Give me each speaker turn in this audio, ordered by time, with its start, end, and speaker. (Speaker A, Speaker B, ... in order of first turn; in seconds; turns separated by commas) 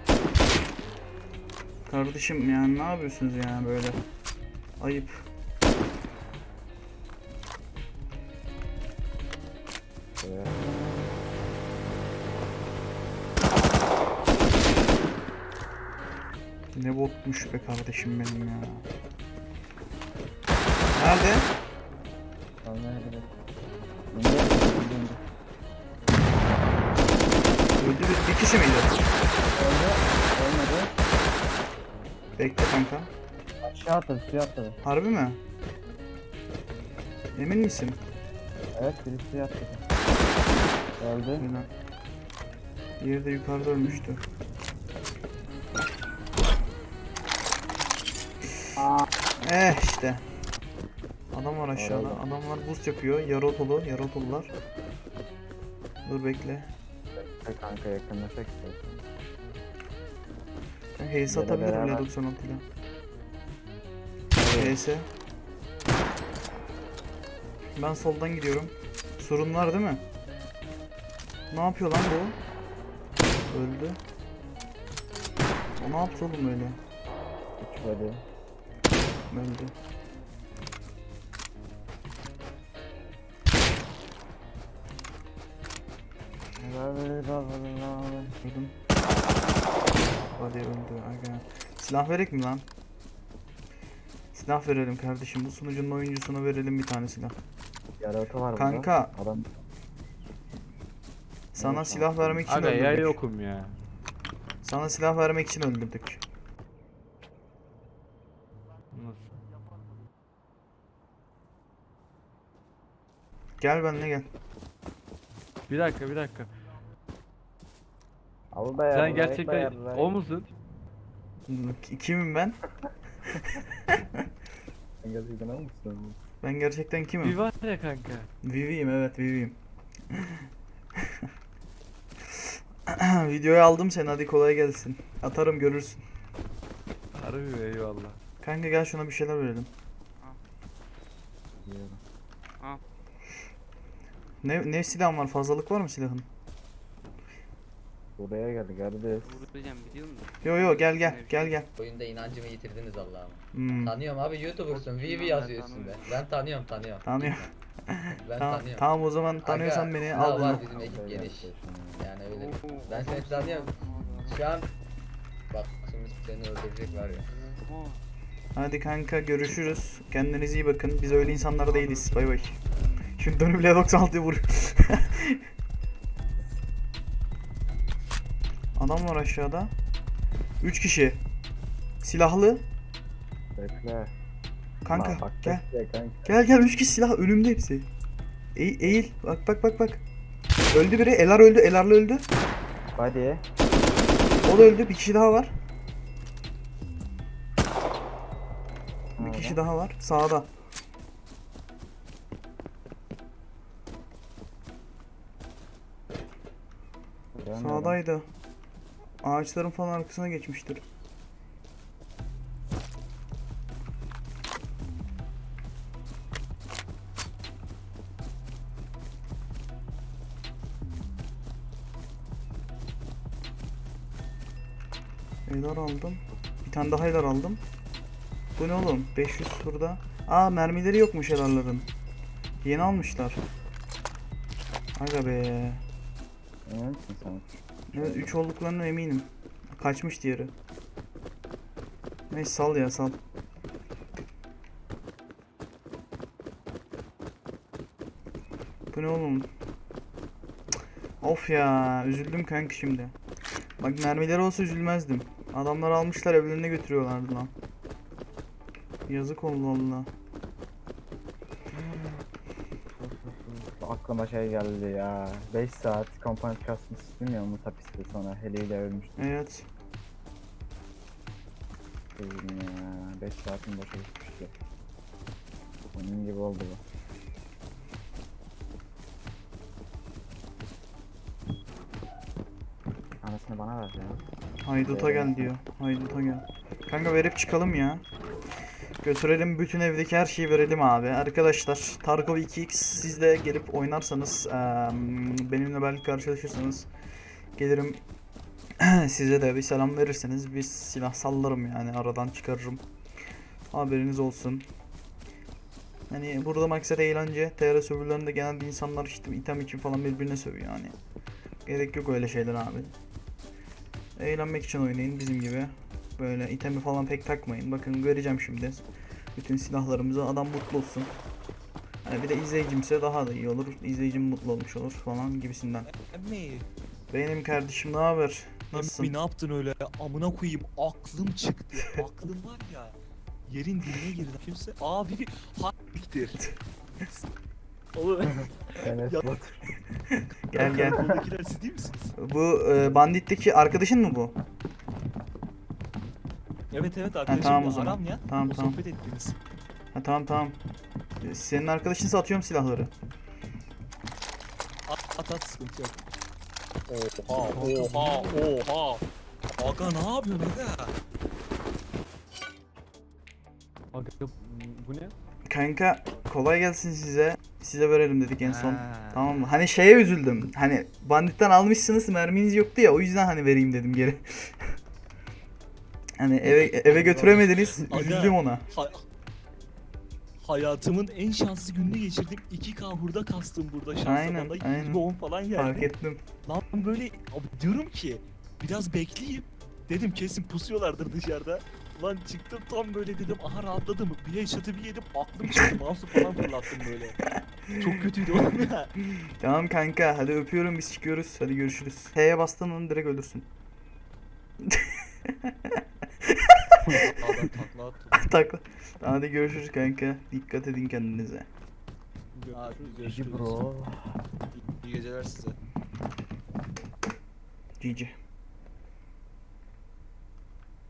Speaker A: 1.9-4.0, Speaker A: 4.8-5.3, Speaker B: 10.2-10.9, Speaker A: 16.8-18.9, Speaker A: 20.9-21.5, Speaker B: 22.6-23.3, Speaker B: 24.1-25.2, Speaker A: 27.8-29.0, Speaker B: 29.5-30.9, Speaker A: 32.4-33.1, Speaker B: 33.6-34.8, Speaker A: 34.8-35.4, Speaker A: 37.4-38.0, Speaker B: 38.8-39.8, Speaker B: 41.0-41.5, Speaker A: 41.4-41.7, Speaker A: 43.0-44.2, Speaker B: 48.8-49.1, Speaker A: 49.4-50.2, Speaker A: 51.3-54.5, Speaker B: 51.7-52.2, Speaker A: 56.0-56.7, Speaker B: 57.2-59.0, Speaker A: 61.0-62.6, Speaker B: 61.3-62.1, Speaker B: 64.4-64.9, Speaker A: 64.5-65.1, Speaker A: 67.8-70.0, Speaker A: 71.5-72.4, Speaker A: 73.5-74.0, Speaker A: 75.8-76.8, Speaker B: 77.6-78.2, Speaker A: 79.3-79.8, Speaker B: 86.6-88.3, Speaker A: 88.4-88.8, Speaker A: 90.3-92.7, Speaker A: 94.3-97.4, Speaker B: 98.0-99.5, Speaker A: 98.6-99.1, Speaker A: 101.5-103.2, Speaker B: 101.6-102.5, Speaker C: 102.5-103.8, Speaker A: 104.6-106.2, Speaker C: 108.9-109.3, Speaker A: 113.6-114.3, Speaker C: 115.7-116.5, Speaker B: 118.5-120.2, Speaker C: 118.9-120.5, Speaker A: 121.5-122.6, Speaker A: 123.6-124.0, Speaker B: 125.0-126.2, Speaker A: 126.4-127.4, Speaker C: 127.2-128.3, Speaker A: 128.4-129.6, Speaker A: 130.1-130.4, Speaker A: 132.9-136.1, Speaker C: 137.1-138.2, Speaker A: 138.4-139.7, Speaker B: 141.6-142.0, Speaker A: 144.4-146.3, Speaker B: 148.2-149.4, Speaker C: 149.3-151.6, Speaker A: 150.4-151.7, Speaker D: 151.7-157.5, Speaker A: 153.5-154.0, Speaker C: 154.7-156.2, Speaker A: 157.0-160.8, Speaker D: 158.1-158.9, Speaker D: 159.4-164.7, Speaker B: 160.7-162.1, Speaker C: 162.3-164.4, Speaker D: 165.5-167.3, Speaker C: 167.3-168.0, Speaker A: 168.6-172.6, Speaker C: 171.7-172.6, Speaker A: 173.2-175.4, Speaker A: 178.8-179.7, Speaker A: 180.6-181.2, Speaker A: 182.0-182.6, Speaker B: 183.6-184.1, Speaker A: 184.8-185.6, Speaker B: 184.9-186.3, Speaker A: 186.3-187.9, Speaker A: 188.6-190.0, Speaker A: 190.7-192.3, Speaker B: 193.0-193.4, Speaker A: 194.4-195.5, Speaker B: 199.2-199.6, Speaker A: 199.2-200.5, Speaker B: 207.4-208.0, Speaker A: 207.6-208.3, Speaker A: 209.2-210.8, Speaker A: 225.5-227.6, Speaker A: 228.6-231.9, Speaker A: 232.6-233.4, Speaker A: 234.9-235.8, Speaker B: 236.7-238.3, Speaker A: 237.9-240.5, Speaker A: 242.3-243.2, Speaker A: 248.9-249.5, Speaker A: 251.2-253.1, Speaker A: 253.8-257.5, Speaker A: 259.1-260.1, Speaker B: 261.7-262.2, Speaker B: 262.9-269.2, Speaker A: 269.2-269.7, Speaker B: 272.2-274.5, Speaker B: 275.9-276.8, Speaker B: 283.2-284.2, Speaker A: 284.6-288.0, Speaker B: 284.8-285.5, Speaker A: 289.0-296.9, Speaker A: 297.6-298.0, Speaker A: 298.8-302.8, Speaker A: 303.7-304.7, Speaker A: 306.1-310.9, Speaker A: 311.7-312.9, Speaker A: 314.2-318.8, Speaker A: 319.4-321.1, Speaker A: 322.1-325.9, Speaker E: 325.9-326.7, Speaker A: 327.1-329.1, Speaker E: 328.7-332.9, Speaker E: 333.5-336.4, Speaker E: 337.9-339.3, Speaker B: 338.8-339.8, Speaker A: 340.1-341.0, Speaker E: 340.5-342.1, Speaker B: 340.8-341.2, Speaker A: 342.2-344.4, Speaker E: 346.7-349.4, Speaker A: 347.3-348.8, Speaker A: 349.9-350.6, Speaker A: 351.2-352.9, Speaker E: 354.9-356.1, Speaker E: 356.9-359.0, Speaker A: 357.6-358.3, Speaker E: 359.6-361.0, Speaker C: 363.9-365.1, Speaker A: 365.5-374.7, Speaker E: 368.4-369.2, Speaker A: 376.2-378.7, Speaker E: 376.9-379.0, Speaker E: 380.4-385.8, Speaker A: 384.0-385.0, Speaker A: 385.5-386.2, Speaker E: 386.4-397.2, Speaker A: 397.3-397.8, Speaker E: 397.7-398.9, Speaker A: 399.0-403.5, Speaker A: 404.6-407.1, Speaker E: 407.0-408.3, Speaker A: 408.1-411.5, Speaker E: 412.4-413.6, Speaker B: 413.0-414.2, Speaker E: 414.8-415.6, Speaker A: 417.8-418.1